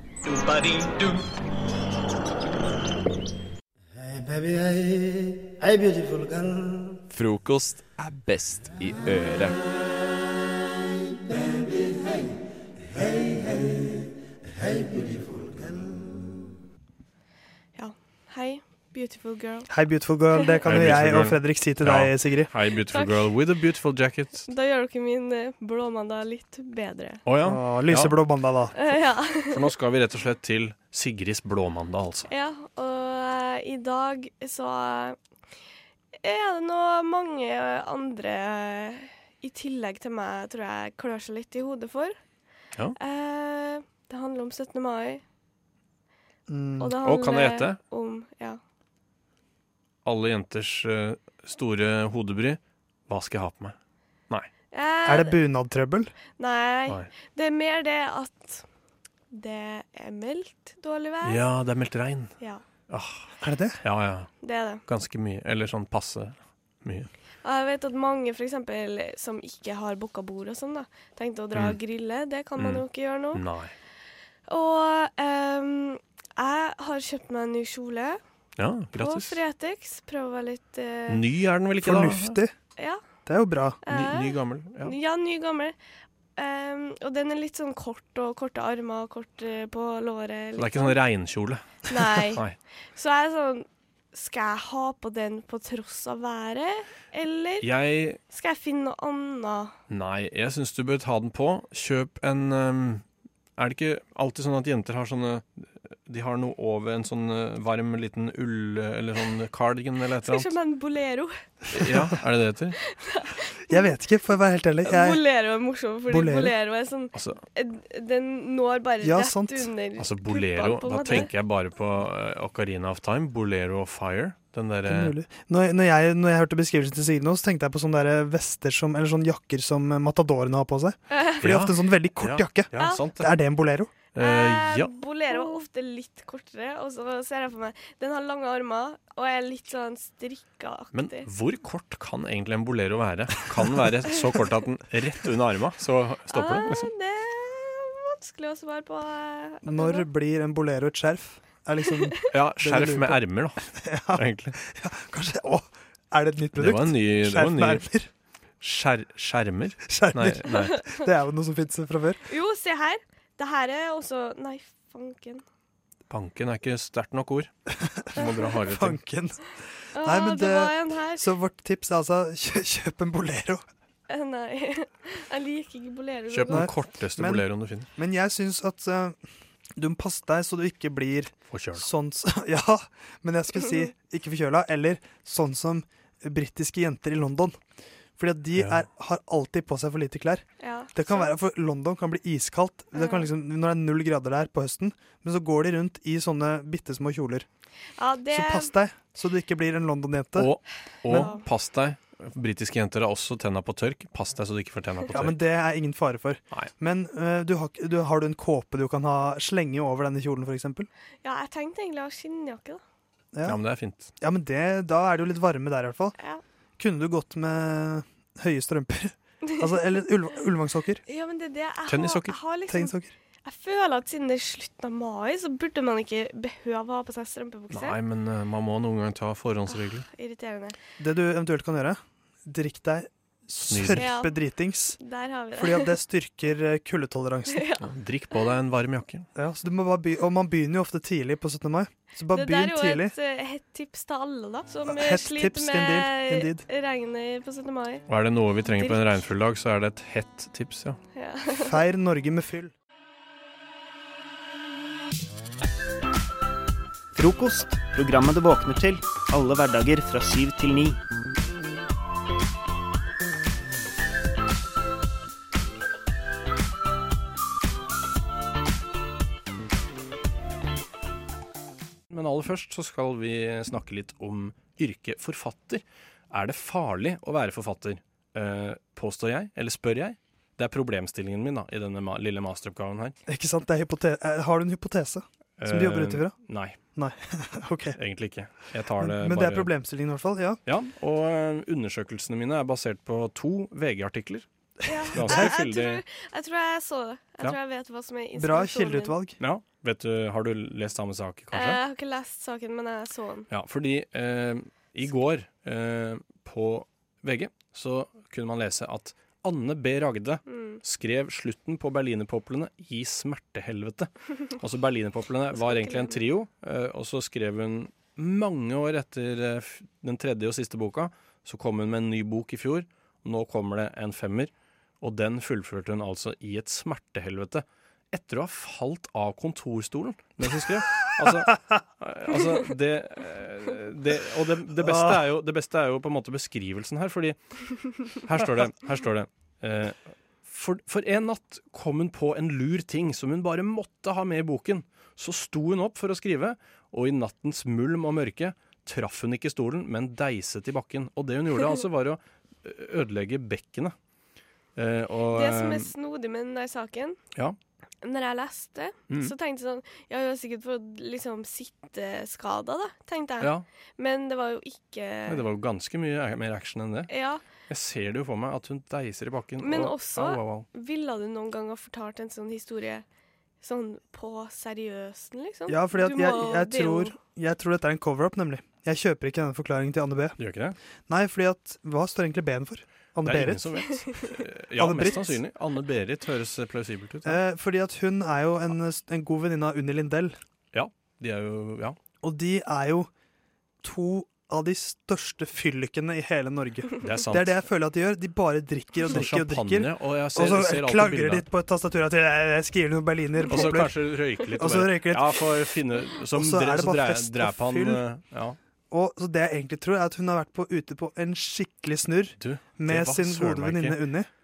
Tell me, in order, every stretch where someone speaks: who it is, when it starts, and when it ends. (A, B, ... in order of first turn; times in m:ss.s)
0:00.2-0:01.2 A
0:04.0-0:07.0 A
0:07.1-0:09.6 B
0:13.1-0:13.6 A
0:14.6-0:15.9 A
0:17.8-0:19.7 C
0:19.7-0:22.5 D
0:20.6-0:24.5 E
0:22.9-0:23.3 C
0:24.5-0:27.2 C
0:27.2-0:28.2 E
0:27.4-0:28.8 D
0:28.8-0:29.6 C
0:29.4-0:32.3 E
0:32.3-0:35.2 C
0:36.2-0:42.2 C
0:43.0-0:45.2 C
0:46.5-0:47.0 D
0:46.8-0:48.6 C
0:47.0-0:47.8 E
0:50.0-0:53.8 E
0:54.7-0:55.4 C
0:55.1-0:56.1 D
0:56.4-0:58.6 C
0:59.3-1:01.4 C
1:01.2-1:02.3 E
1:02.9-1:03.3 E
1:03.4-1:03.8 D
1:03.8-1:04.3 E
1:04.4-1:04.8 C
1:04.9-1:07.1 E
1:07.4-1:13.4 C
1:12.6-1:13.7 E
1:14.5-1:18.2 C
1:18.6-1:19.4 E
1:18.9-1:21.2 C
1:21.1-1:22.4 E
1:21.8-1:22.5 D
1:22.8-1:23.0 C
1:23.3-1:23.8 D
1:23.8-1:25.8 C
1:23.9-1:25.0 E
1:26.4-1:31.0 C
1:30.6-1:31.6 E
1:31.9-1:32.4 C
1:32.9-1:37.7 C
1:37.6-1:38.2 E
1:38.3-1:39.8 C
1:39.9-1:43.0 E
1:43.6-1:50.5 E
1:50.2-1:51.3 C
1:51.7-1:52.8 E
1:52.8-1:53.9 C
1:53.7-1:55.2 D
1:54.8-2:01.3 C
1:56.1-1:56.6 D
1:57.1-1:57.4 E
1:59.0-1:59.7 D
2:00.0-2:05.1 E
2:04.9-2:13.9 D
2:11.1-2:11.4 C
2:11.4-2:13.4 E
2:12.8-2:13.1 C
2:14.1-2:14.9 E
2:14.2-2:21.3 C
2:20.9-2:26.9 E
2:26.3-2:30.1 C
2:29.6-2:33.2 D
2:32.3-2:34.6 E
2:33.7-2:38.1 D
2:36.6-2:37.8 E
2:38.6-2:40.9 E
2:39.9-2:42.2 D
2:40.5-2:41.0 C
2:42.3-2:45.4 C
2:46.1-2:47.5 E
2:47.8-2:49.4 D
2:48.2-2:49.0 E
2:50.0-2:51.2 C
2:50.0-2:53.6 D
2:54.1-2:56.7 C
2:56.3-2:57.9 E
2:56.5-2:59.2 D
2:59.8-3:07.6 D
3:01.5-3:01.9 E
3:08.2-3:17.5 D
3:08.6-3:08.8 E
3:10.6-3:11.3 C
3:13.0-3:13.3 C
3:18.0-3:18.7 C
3:18.3-3:20.5 D
3:20.4-3:25.4 E
3:21.1-3:21.5 C
3:25.1-3:30.9 D
3:31.2-3:32.8 C
3:33.3-3:33.6 D
3:33.4-3:34.1 E
3:34.2-3:36.2 D
3:36.8-3:41.0 D
3:41.1-3:48.0 C
3:41.9-3:42.4 E
3:42.7-3:43.2 D
3:47.7-3:50.1 E
3:50.0-3:50.8 C
3:51.0-3:55.0 D
3:53.7-3:54.1 E
3:54.0-3:54.3 C
3:55.0-3:55.9 C
3:55.6-3:57.7 D
3:57.5-3:57.8 C
3:57.8-3:59.3 E
3:59.4-4:03.1 D
4:02.3-4:08.1 C
4:04.9-4:06.6 D
4:08.1-4:11.0 E
4:08.6-4:09.2 C
4:11.1-4:11.8 C
4:11.6-4:12.7 D
4:17.2-4:21.0 F
4:32.1-4:43.2 E
4:43.3-4:46.4 D
4:45.6-4:46.8 E
4:47.0-4:48.0 D
4:48.0-4:49.7 E
4:49.0-4:50.6 D
4:50.7-4:54.5 E
4:54.9-4:59.2 C
4:55.1-4:56.0 E
4:55.2-4:55.5 D
4:58.4-4:59.4 D
4:59.4-5:01.8 E
5:01.5-5:03.5 C
5:03.5-5:54.0 E
5:10.5-5:10.8 C
5:15.6-5:16.2 C
5:34.8-5:35.2 D
5:51.6-5:51.8 C
5:54.8-5:55.9 E
5:55.3-5:57.2 C
5:58.0-6:05.4 C
5:59.1-5:59.3 E
6:03.4-6:03.6 E
6:05.3-6:07.1 E
6:07.1-6:07.4 C
6:07.7-6:10.7 E
6:09.6-6:13.0 C
6:13.6-6:17.2 C
6:15.7-6:20.4 D
6:20.4-6:20.8 E
6:21.1-6:23.7 D
6:23.2-6:27.4 E
6:23.9-6:24.2 C
6:24.8-6:25.4 D
6:27.2-6:30.4 D
6:30.7-6:32.0 E
6:32.2-6:33.1 D
6:33.8-6:45.6 D
6:37.0-6:37.6 E
6:39.0-6:41.4 E
6:43.5-6:48.6 E
6:46.3-6:48.0 D
6:48.9-6:54.3 D
6:52.4-6:54.0 E